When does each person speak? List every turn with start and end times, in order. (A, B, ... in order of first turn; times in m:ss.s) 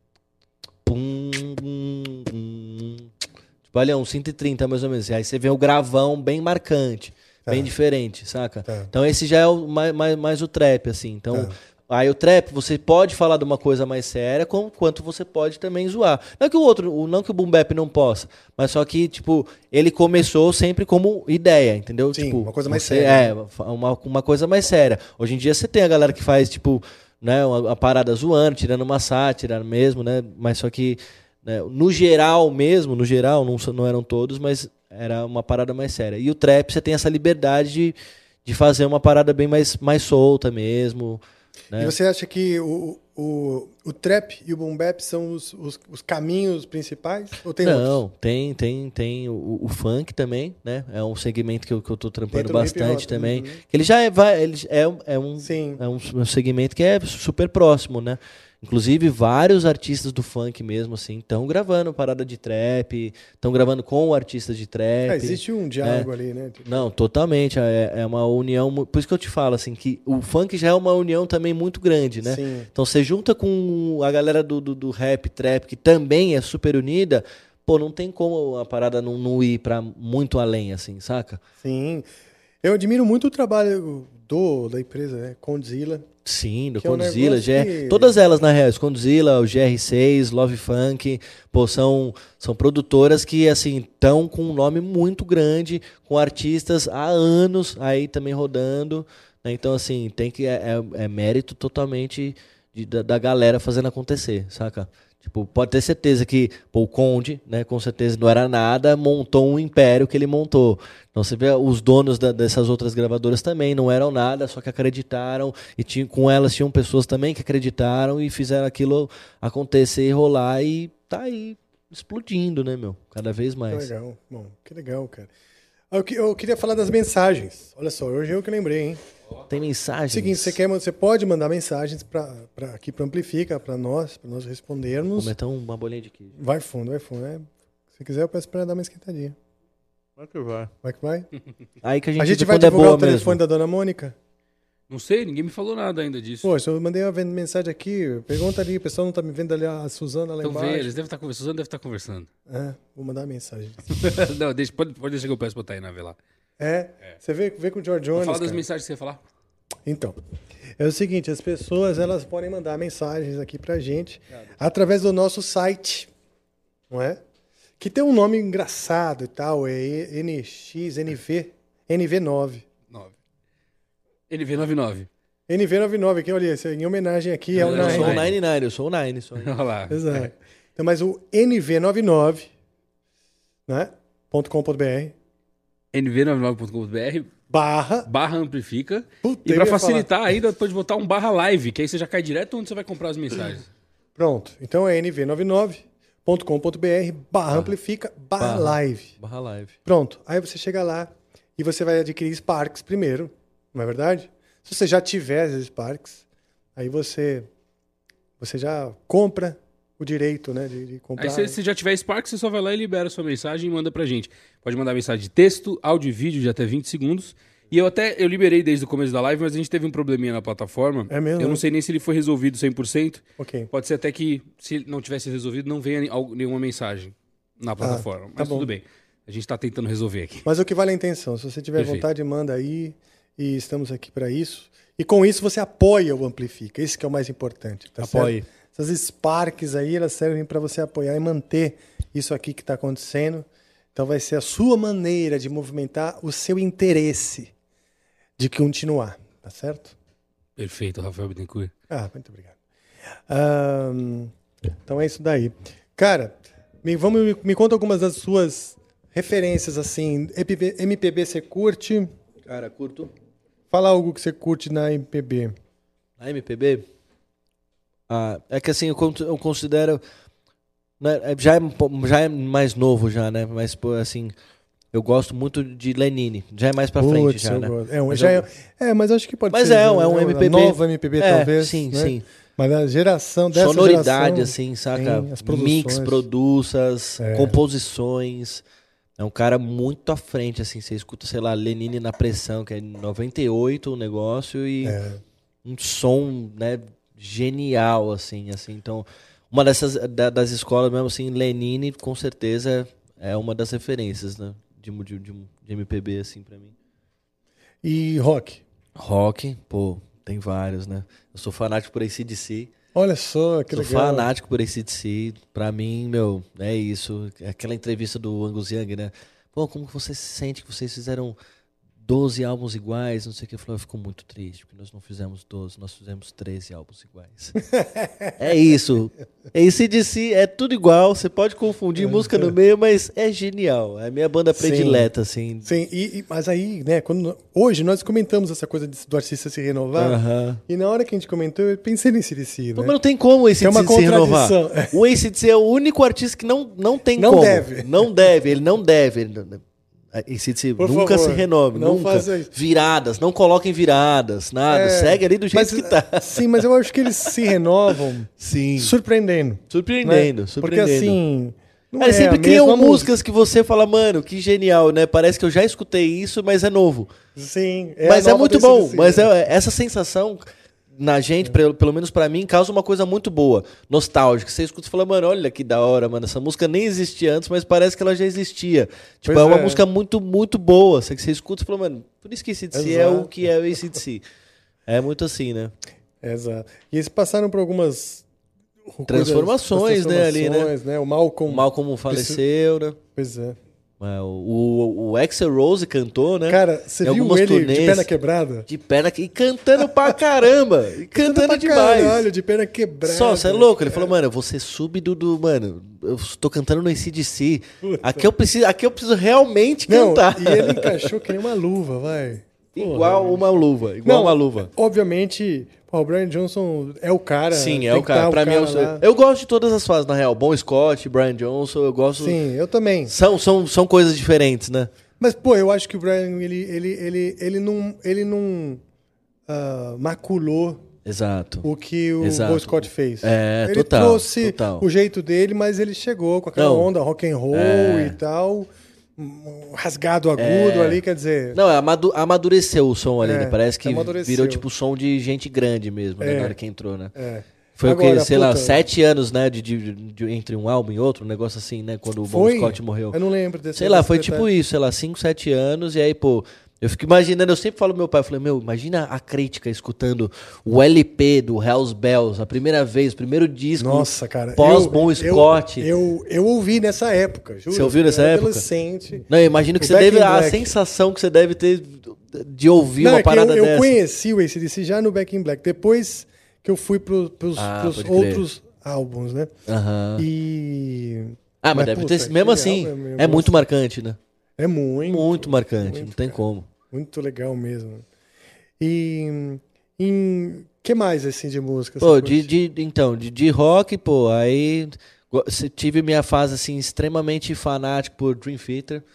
0:00.8-0:03.1 A
0:03.7-0:41.9 A
0:07.4-0:07.7 B
0:08.6-0:08.9 B
0:22.1-0:23.3 B
0:41.8-0:48.0 B
0:47.6-1:06.1 A
0:52.3-0:53.6 B
0:55.4-0:55.8 B
1:05.1-1:06.9 B
1:06.6-1:21.4 A
1:12.2-1:12.7 B
1:21.6-1:22.0 B
1:22.6-1:26.1 B
1:26.2-2:03.9 A
1:26.8-1:28.2 B
2:03.7-2:05.3 B
2:05.9-2:09.0 B
2:09.5-2:10.6 A
2:10.1-2:15.3 B
2:15.1-2:16.4 A
2:16.4-2:19.4 B
2:20.2-2:20.7 A
2:20.8-2:21.3 B
2:21.8-2:23.4 A
2:22.2-2:24.1 B
2:24.9-2:26.5 C
2:26.4-2:31.0 B
2:30.4-2:32.3 C
2:32.5-2:34.1 B
2:34.0-2:36.2 C
2:36.6-2:38.6 B
2:38.1-2:39.2 C
2:39.8-2:40.2 B
2:40.8-2:46.1 B
2:46.9-2:47.2 B
2:47.8-2:52.6 B
2:54.3-2:55.1 C
2:55.5-2:58.3 B
2:57.5-2:58.3 C
2:57.6-2:59.5 A
2:59.4-3:00.3 C
2:59.9-3:02.5 B
3:03.7-3:05.1 B
3:05.9-3:07.3 C
3:07.5-3:08.1 B
3:08.1-3:13.7 C
3:09.2-3:10.1 B
3:14.2-3:19.1 B
3:18.4-3:19.8 A
3:19.8-3:26.2 B
3:26.8-3:27.5 B
3:28.4-3:31.6 B
3:31.2-3:50.4 C
3:41.1-3:41.6 B
3:43.4-3:43.7 B
3:47.8-3:48.7 B
3:50.4-4:07.5 B
3:51.8-3:52.0 C
3:58.0-3:58.4 A
4:08.4-4:10.0 B
4:10.6-4:11.7 C
4:11.9-4:12.6 B
4:13.3-4:14.3 B
4:14.8-4:22.1 B
4:22.5-4:23.1 A
4:23.7-4:25.5 B
4:26.2-4:26.8 A
4:28.1-4:30.0 A
4:31.0-4:34.3 A
4:34.9-4:38.4 A
4:37.0-4:46.3 B
4:39.5-4:42.2 A
4:43.5-4:48.6 A
4:47.2-4:47.6 B
4:49.2-4:55.0 A
4:54.8-4:55.2 B
4:55.6-5:06.7 A
5:07.8-5:08.6 B
5:09.0-5:12.7 A
5:12.9-5:14.3 B
5:13.7-5:21.4 A
5:22.0-5:27.6 A
5:27.7-5:28.3 B
5:28.4-5:35.7 A
5:32.0-5:32.5 B
5:34.5-5:35.1 B
5:35.6-5:42.9 B
5:40.0-5:40.6 A
5:42.8-5:56.6 A
5:43.6-5:45.0 B
5:47.2-5:48.0 B
5:50.8-5:52.5 B
5:54.7-6:03.1 B
5:58.4-5:58.9 A
5:59.7-6:01.2 A
6:02.0-6:07.1 A
6:07.3-6:09.3 B
6:08.0-6:10.4 A
6:11.0-6:24.2 A
6:19.2-6:19.8 B
6:22.7-6:24.0 B
6:24.9-6:25.7 A
6:26.2-6:28.2 B
6:28.9-6:32.4 B
6:29.1-6:30.7 A
6:31.5-6:33.0 A
6:33.2-6:33.6 B
6:34.0-6:38.1 A
6:36.4-6:38.7 B
6:38.7-6:42.2 A
6:39.8-6:40.2 B
6:41.1-6:44.1 B
6:43.0-6:51.1 A
6:47.8-6:48.3 B
6:49.9-6:53.5 B
6:52.7-6:54.7 A
6:54.0-6:59.0 B
6:57.5-7:02.4 A
7:02.2-7:03.1 B
7:03.0-7:04.9 A
7:05.2-7:08.8 B
7:09.5-7:10.8 B
7:11.0-7:11.6 A
7:11.6-7:21.6 B
7:12.2-7:14.8 A
7:16.6-7:16.9 A
7:17.5-7:18.2 A
7:20.4-7:21.0 A
7:21.5-7:27.1 A
7:23.2-7:24.6 B
7:26.2-7:26.6 B
7:27.1-7:28.8 B
7:27.8-7:33.2 A
7:32.2-7:34.5 B
7:33.7-7:45.9 A
7:43.8-7:49.2 B
7:47.7-7:48.6 A
7:49.3-7:53.9 A
7:49.8-7:50.7 B
7:53.0-7:59.5 B
7:57.6-7:58.4 A
7:59.7-8:00.3 A
8:00.2-8:03.6 B
8:01.6-8:04.2 A
8:04.6-8:06.4 B
8:05.0-8:06.7 A
8:06.9-8:08.0 B
8:08.8-8:12.5 B
8:12.0-8:19.0 A